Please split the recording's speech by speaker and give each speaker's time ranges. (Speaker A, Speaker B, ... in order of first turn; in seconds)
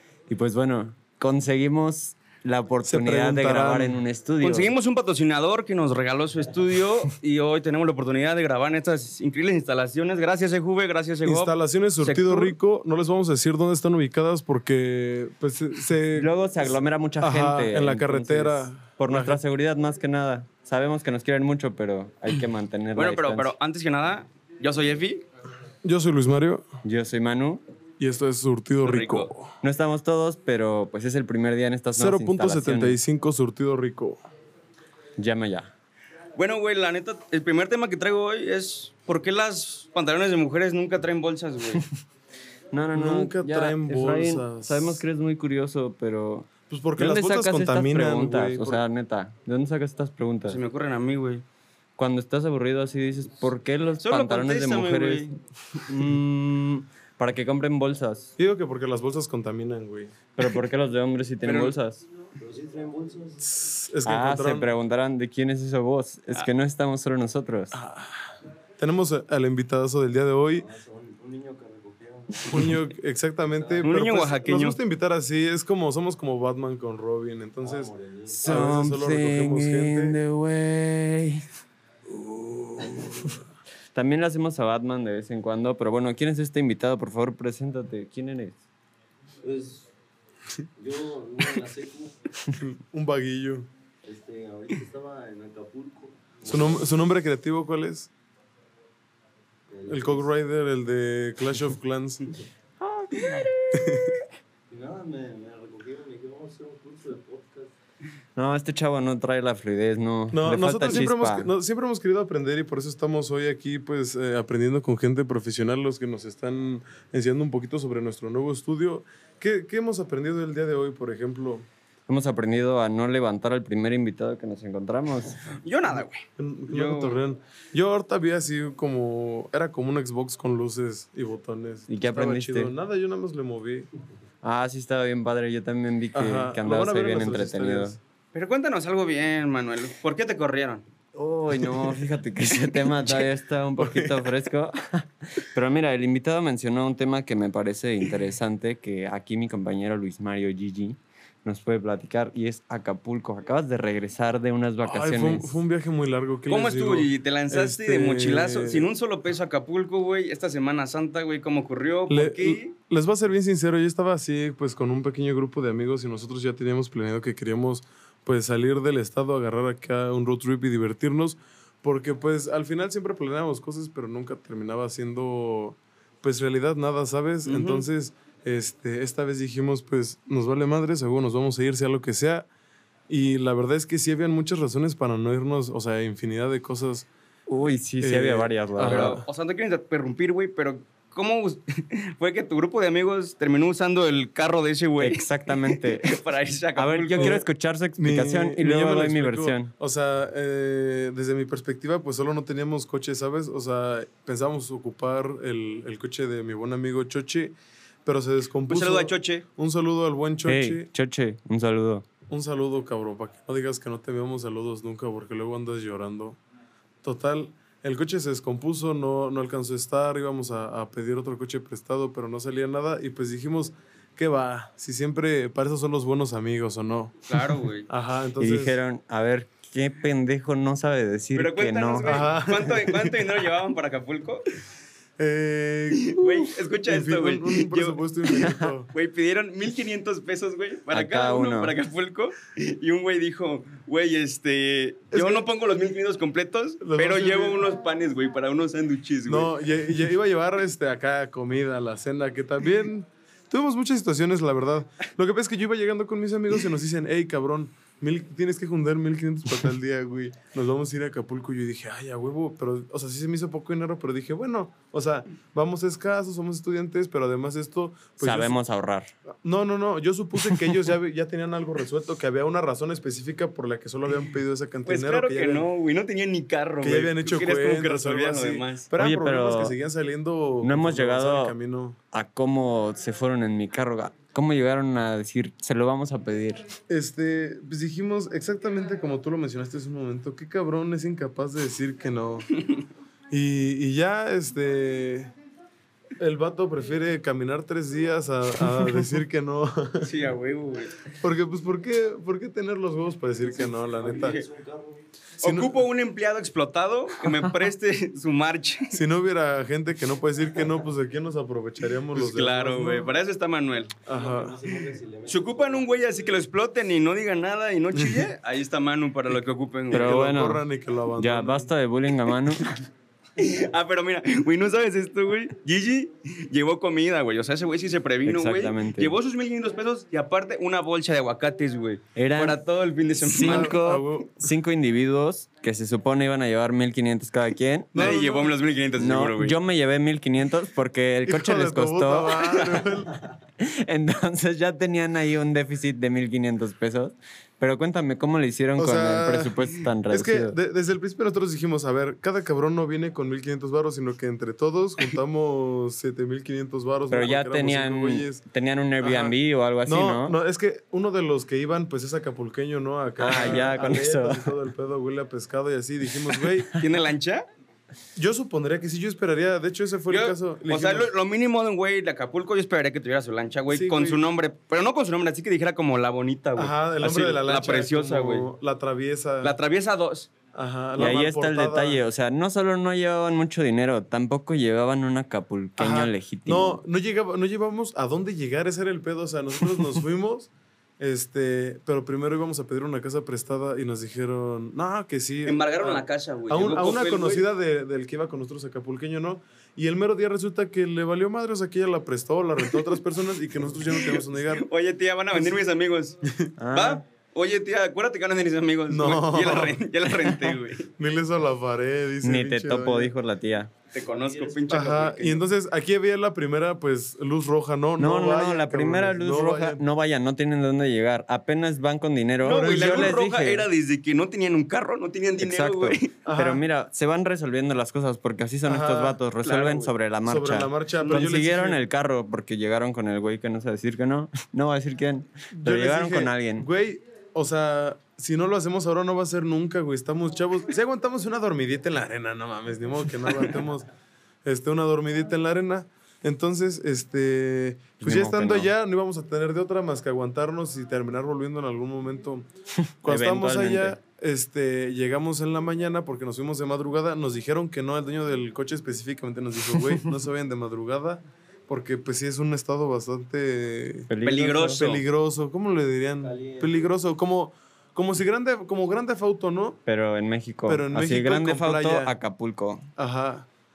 Speaker A: 0.3-4.7, 16.1-23.5, 26.8-27.6, 29.6-33.0, 35.2-35.7, 42.7-50.6, 52.0-55.3, 55.9-58.3, 60.4-62.0, 64.0-67.8, 78.3-81.4, 83.9-88.6, 102.8-103.8, 108.3-111.5, 122.1-125.4, 131.9-132.7, 134.4-137.9, 141.1-155.6, 187.5-189.2, 195.0-196.1, 196.8-199.7, 210.5-212.1, 228.4-232.2, 240.9-241.8, 268.2-269.1, 278.9-279.7, 280.6-281.5, 282.1-286.6, 319.9-320.6, 321.2-322.8, 328.2-329.2, 332.1-332.6, 333.2-337.9, 339.0-342.7, 343.6-350.6, 357.1-360.4, 363.2-364.5, 381.0-386.8, 406.6-407.0, 412.2-413.7, 418.0-423.7, 425.4-436.6, 448.0-448.7, 453.0-454.0, 464.1-464.8, 469.9-472.9
Speaker B: 2.9-4.0, 11.2-19.4, 25.8-26.6, 28.0-29.6, 31.9-34.2, 42.9-45.0, 46.7-48.8, 58.4-60.1, 63.4-64.7, 67.7-70.7, 72.5-80.2, 82.8-83.1, 92.6-93.7, 96.4-98.1, 99.9-102.3, 103.7-104.1, 110.3-121.7, 126.4-133.9, 136.1-138.0, 143.8-144.4, 154.8-158.9, 162.1-182.5, 183.1-187.1, 188.0-189.2, 197.2-197.4, 198.0-210.9, 212.3-216.4, 217.0-228.8, 232.0-233.3, 235.2-238.9, 245.1-245.4, 246.8-247.6, 249.3-268.6, 269.4-275.6, 276.8-282.0, 286.9-292.5, 293.3-295.3, 296.2-300.1, 301.2-304.4, 305.4-305.8, 308.9-313.1, 314.1-314.6, 318.0-318.2, 319.9-321.7, 333.4-334.5, 337.9-338.6, 341.2-343.1, 348.8-358.4, 359.0-366.7, 368.1-371.1, 373.7-374.3, 376.6-379.5, 380.5-382.0, 385.8-404.7, 405.3-405.6, 406.2-406.5, 408.9-409.8, 411.0-413.1, 414.7-419.8, 422.4-423.2, 426.2-426.6, 428.6-429.2, 430.2-431.8, 435.5-443.9, 444.4-452.4, 453.0-464.1, 464.8-469.8, 470.6-472.1, 473.0-473.5
Speaker C: 4.4-12.6, 22.9-25.2, 28.8-29.3, 36.4-41.8, 50.5-51.4, 54.0-55.3, 61.4-61.8, 73.8-74.8, 125.6-127.2, 138.3-140.8, 156.5-162.7, 177.4-177.9, 188.8-197.4, 208.7-209.4, 227.3-227.9, 231.3-234.4, 236.0-238.0, 238.9-249.6, 274.8-278.9, 300.0-300.9, 304.1-304.5, 305.4-309.0, 312.1-314.0, 315.2-320.2, 323.4-333.9, 337.9-339.6, 363.2-363.7, 366.8-367.4, 370.1-378.5, 379.4-380.3, 395.4-397.5, 402.6-402.9, 403.9-406.2, 406.7-410.9, 413.9-415.4, 422.4-426.1, 429.4-429.9, 431.0-431.3, 464.2-465.0
Speaker D: 62.4-63.5, 70.5-72.8, 73.5-73.9, 77.6-78.6, 89.4-89.9, 90.8-92.2, 94.0-96.9, 99.7-100.2, 104.7-107.7, 303.7-305.0, 314.1-316.4, 414.0-414.9, 466.2-466.9